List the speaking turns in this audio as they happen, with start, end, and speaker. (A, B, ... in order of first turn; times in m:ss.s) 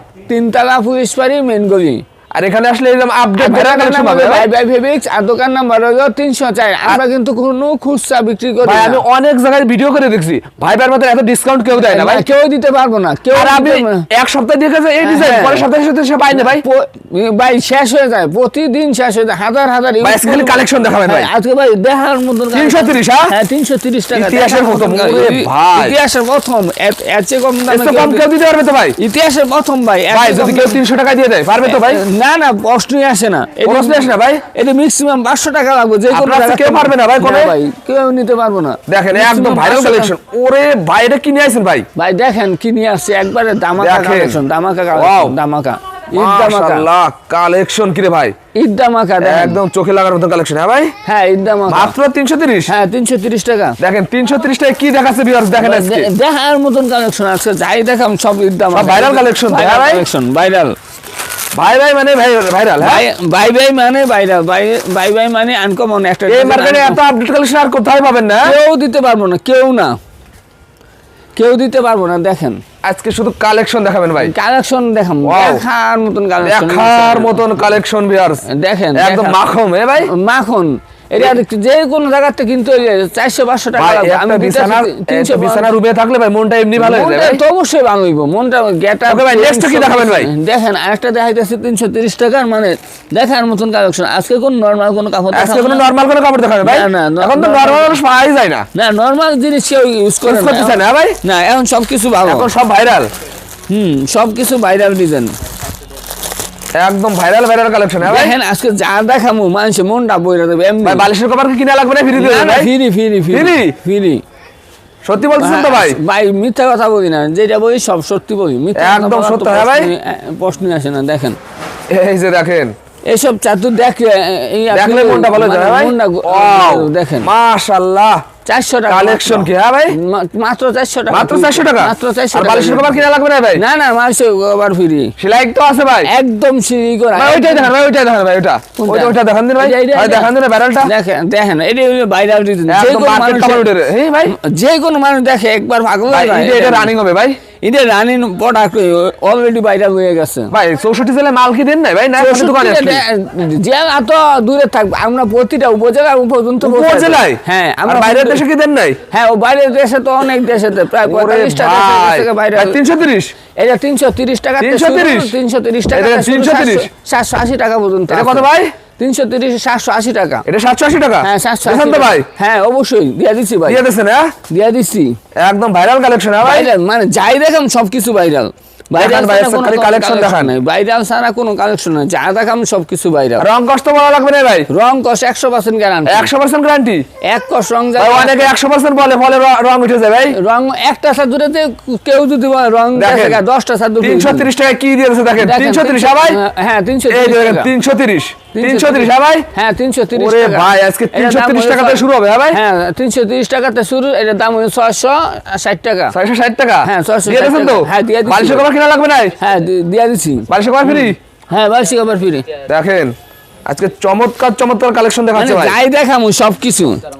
0:00.3-0:02.0 A
0:02.3-0:04.5 B
0:03.4-0:09.0 A
0:08.6-0:12.2 B
0:11.7-0:14.1 A
0:13.3-0:16.6 B
0:15.0-0:15.7 A
0:16.4-0:28.2 A
0:20.0-0:21.3 B
0:22.5-0:23.3 B
0:24.1-0:26.0 B
0:27.7-0:29.0 B
0:29.0-0:30.8 A
0:30.1-0:32.0 B
0:31.6-0:40.1 A
0:33.6-0:34.4 B
0:36.1-0:37.6 B
0:38.9-0:41.8 B
0:42.0-0:46.9 A
0:43.8-0:44.4 B
0:44.9-0:45.4 B
0:46.1-0:48.3 B
0:48.5-0:49.6 A
0:49.2-0:50.9 B
0:51.0-0:51.9 A
0:51.7-0:52.7 B
0:52.7-0:53.8 A
0:53.8-0:56.1 B
0:55.6-1:00.8 A
0:58.7-1:00.0 B
1:01.5-1:03.0 B
1:02.8-1:07.0 A
1:06.3-1:08.6 B
1:08.4-1:09.9 A
1:11.4-1:12.6 A
1:12.8-1:14.3 B
1:14.2-1:17.4 A
1:15.2-1:15.6 B
1:16.4-1:18.4 B
1:18.5-1:19.4 A
1:18.9-1:20.1 B
1:20.0-1:25.7 A
1:23.8-1:27.4 B
1:26.8-1:35.9 A
1:29.1-1:30.3 B
1:35.3-1:38.6 B
1:36.6-1:38.0 A
1:38.7-1:42.5 A
1:40.2-1:41.2 B
1:42.2-1:43.1 B
1:43.7-1:45.3 A
1:46.7-1:48.3 B
1:48.0-1:51.1 A
1:50.8-1:52.7 B
1:52.1-1:54.2 A
1:53.3-1:53.8 B
1:55.0-1:56.0 B
1:55.4-2:01.4 A
1:58.7-1:59.9 B
2:01.9-2:02.7 B
2:03.1-2:07.3 A
2:04.7-2:08.2 B
2:08.4-2:15.1 A
2:08.9-2:10.0 B
2:11.1-2:13.6 B
2:15.2-2:16.1 B
2:16.0-2:17.7 A
2:17.1-2:20.9 B
2:18.8-2:23.7 A
2:22.7-2:24.3 B
2:24.3-2:26.9 A
2:26.1-2:27.4 B
2:27.6-2:30.5 A
2:30.5-2:33.0 B
2:32.2-2:38.4 A
2:36.6-2:39.0 B
2:39.1-2:42.8 A
2:41.0-2:43.3 B
2:43.5-2:50.4 A
2:44.6-2:45.3 B
2:45.9-2:46.9 B
2:48.1-2:48.7 B
2:50.5-2:52.3 B
2:51.2-2:53.8 A
2:53.6-2:54.3 B
2:54.5-2:55.2 A
2:55.4-2:56.7 B
2:56.4-3:03.4 A
2:59.0-3:00.6 B
3:03.4-3:04.7 B
3:04.7-3:06.3 A
3:06.1-3:07.0 B
3:07.2-3:08.5 A
3:08.0-3:10.4 B
3:10.3-3:14.5 A
3:12.9-3:13.4 B
3:14.0-3:16.4 B
3:15.4-3:17.7 A
3:17.1-3:19.5 B
3:18.5-3:26.2 A
3:20.1-3:22.6 B
3:26.1-3:29.4 B
3:26.8-3:28.7 A
3:29.4-3:32.4 A
3:30.5-3:31.2 B
3:32.7-3:33.1 B
3:33.6-3:35.8 B
3:35.3-3:37.0 A